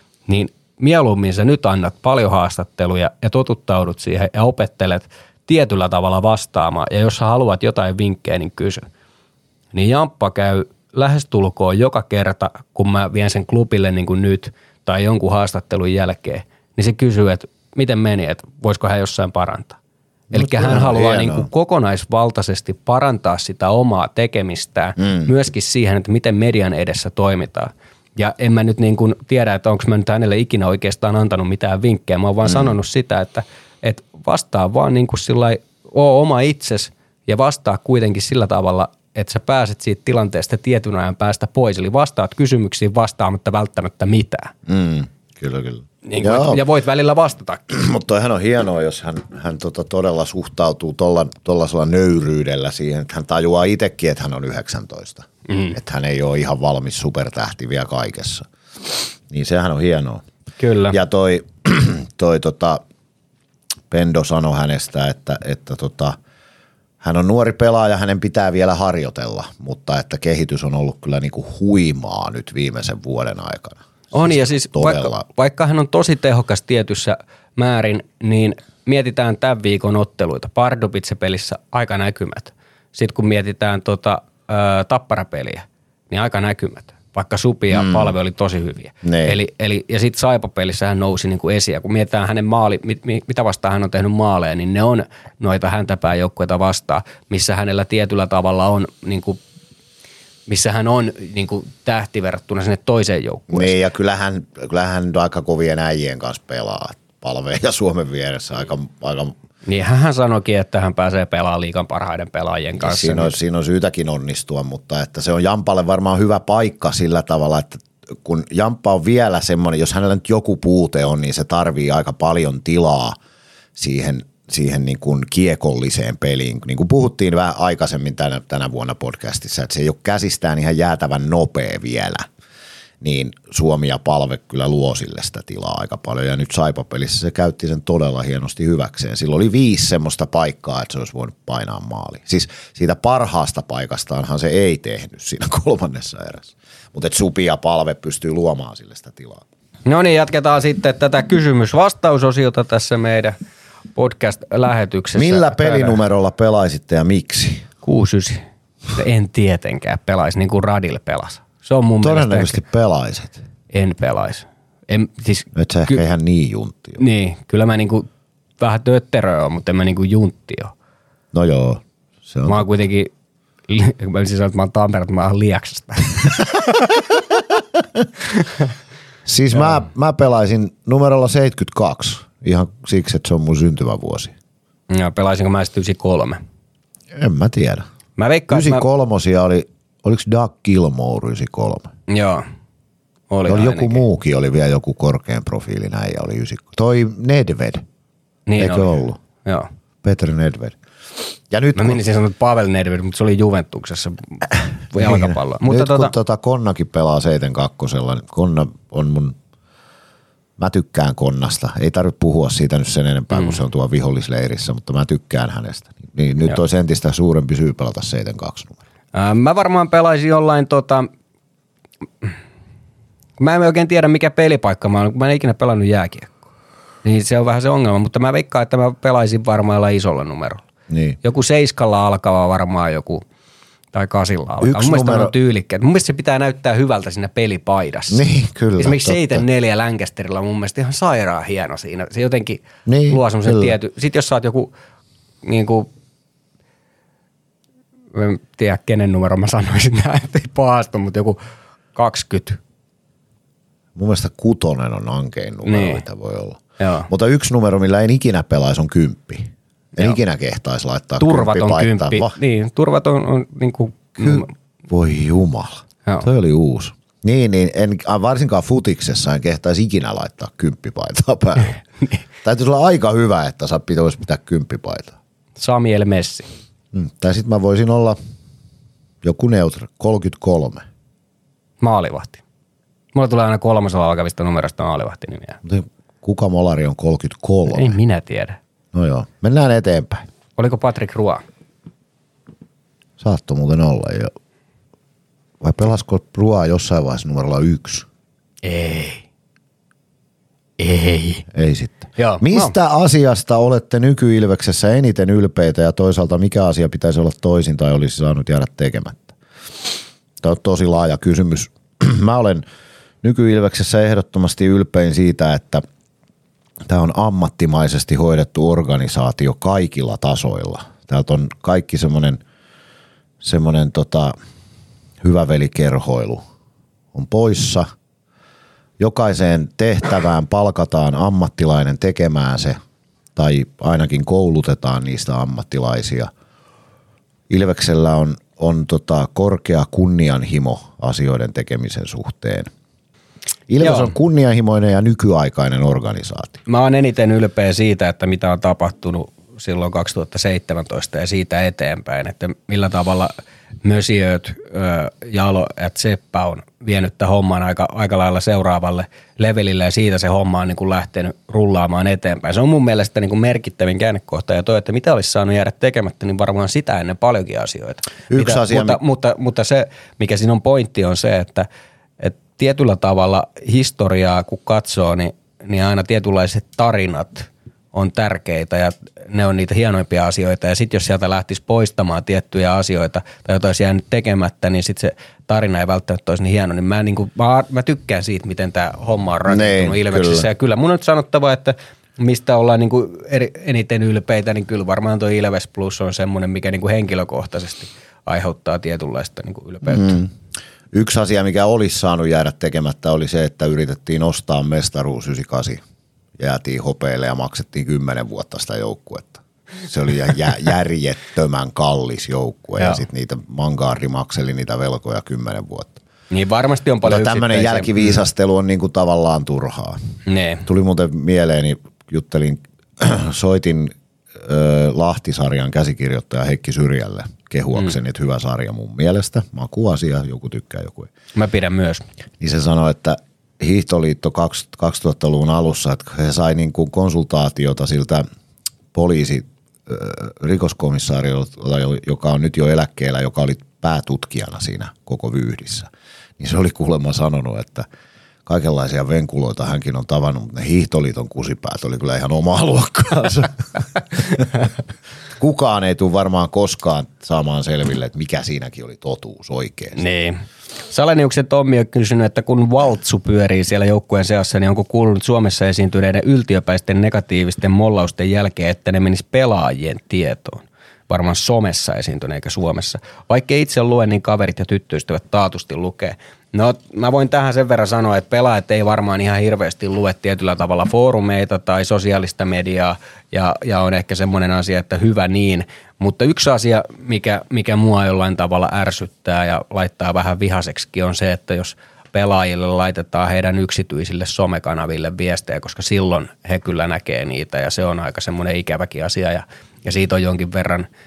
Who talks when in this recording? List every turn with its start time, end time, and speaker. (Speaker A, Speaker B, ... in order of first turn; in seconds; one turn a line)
Speaker A: 0.3-8.8
Speaker A: 9.7-19.8
Speaker A: 20.3-44.5
Speaker B: 20.3-21.5
Speaker B: 25.0-25.3
Speaker B: 32.4-32.8
Speaker B: 44.7-46.6
Speaker A: 46.0-47.6
Speaker B: 47.7-60.2
Speaker A: 55.5-55.8
Speaker A: 60.6-61.0
Speaker B: 60.9-62.8
Speaker B: 63.9-66.2
Speaker B: 67.0-75.2
Speaker A: 74.1-99.4
Speaker B: 87.7-88.1
Speaker B: 89.0-89.4
Speaker A: 100.5-103.8
Speaker B: 103.5-109.3
Speaker A: 109.7-113.3
Speaker B: 112.8-123.2
Speaker B: 123.8-132.3
Speaker B: 133.0-149.4
Speaker A: 149.8-153.3
Speaker A: 153.9-156.0
Speaker B: 155.1-157.7
Speaker A: 157.8-158.4
Speaker A: 158.9-162.6
Speaker B: 162.0-163.4
Speaker A: 163.7-166.0
Speaker B: 165.5-167.0
Speaker A: 167.0-168.1
Speaker A: 168.6-170.7
Speaker B: 171.3-172.6
Speaker A: 172.4-173.1
Speaker A: 173.7-176.9
Speaker B: 177.8-178.1
Speaker A: 178.4-178.7
Speaker B: 179.2-184.3
Speaker A: 179.5-179.8
Speaker A: 184.9-186.4
Speaker B: 187.1-187.8
Speaker A: 188.2-188.8
Speaker B: 188.5-191.9
Speaker A: 192.1-192.4
Speaker A: 193.3-194.0
Speaker B: 193.4-197.8
Speaker A: 198.5-199.7
Speaker B: 198.6-199.2
Speaker B: 200.0-200.8
Speaker B: 201.5-202.0
Speaker A: 201.7-206.1
Speaker B: 204.9-209.3
Speaker B: 210.6-218.8
Speaker A: 213.3-213.6
Speaker A: 219.1-221.1
Speaker A: 223.4-226.3
Speaker A: 227.0-230.6
Speaker B: 230.9-231.2
Speaker A: 231.2-233.2
Speaker A: 233.9-238.2
Speaker B: 234.6-235.3
Speaker B: 238.1-239.4
Speaker A: 238.8-244.7
Speaker B: 242.8-243.7
Speaker A: 245.4-245.9
Speaker A: 248.1-251.4
Speaker A: 251.9-252.6
Speaker B: 253.9-262.3
Speaker A: 255.6-256.0
Speaker A: 256.8-257.1
Speaker A: 261.2-264.5
Speaker B: 264.2-271.8
Speaker B: 272.4-275.1
Speaker A: 275.6-276.5
Speaker B: 276.9-278.2
Speaker B: 279.2-280.8
Speaker A: 281.8-282.4
Speaker A: 283.1-285.6
Speaker B: 285.6-287.9
Speaker A: 287.7-288.6
Speaker B: 288.9-290.2
Speaker A: 290.6-291.4
Speaker B: 293.2-294.3
Speaker B: 295.6-298.1
Speaker A: 298.6-299.2
Speaker A: 300.8-301.4
Speaker B: 301.5-312.6
Speaker A: 302.2-302.7
Speaker B: 313.2-315.8
Speaker B: 316.9-322.4
Speaker B: 323.4-324.3
Speaker B: 325.2-326.4
Speaker B: 327.1-327.9
Speaker B: 329.0-332.8
Speaker B: 333.3-336.3
Speaker B: 337.5-342.7
Speaker B: 343.7-346.6
Speaker A: 343.8-344.1
Speaker A: 346.7-353.3
Speaker A: 353.8-371.7
Speaker B: 368.3-369.0
Speaker A: 372.2-400.2
Speaker B: 389.5-390.4
Speaker B: 399.8-400.3
Speaker B: 400.9-405.8
Speaker B: 406.4-416.0
Speaker A: 412.8-413.0
Speaker A: 416.3-418.2
Speaker B: 417.0-420.0
Speaker A: 420.3-420.6
Speaker B: 420.6-431.1
Speaker A: 431.3-432.0
Speaker B: 432.4-438.2
Speaker B: 438.9-447.9
Speaker B: 448.4-454.7
Speaker B: 455.4-460.0
Speaker A: 459.9-500.9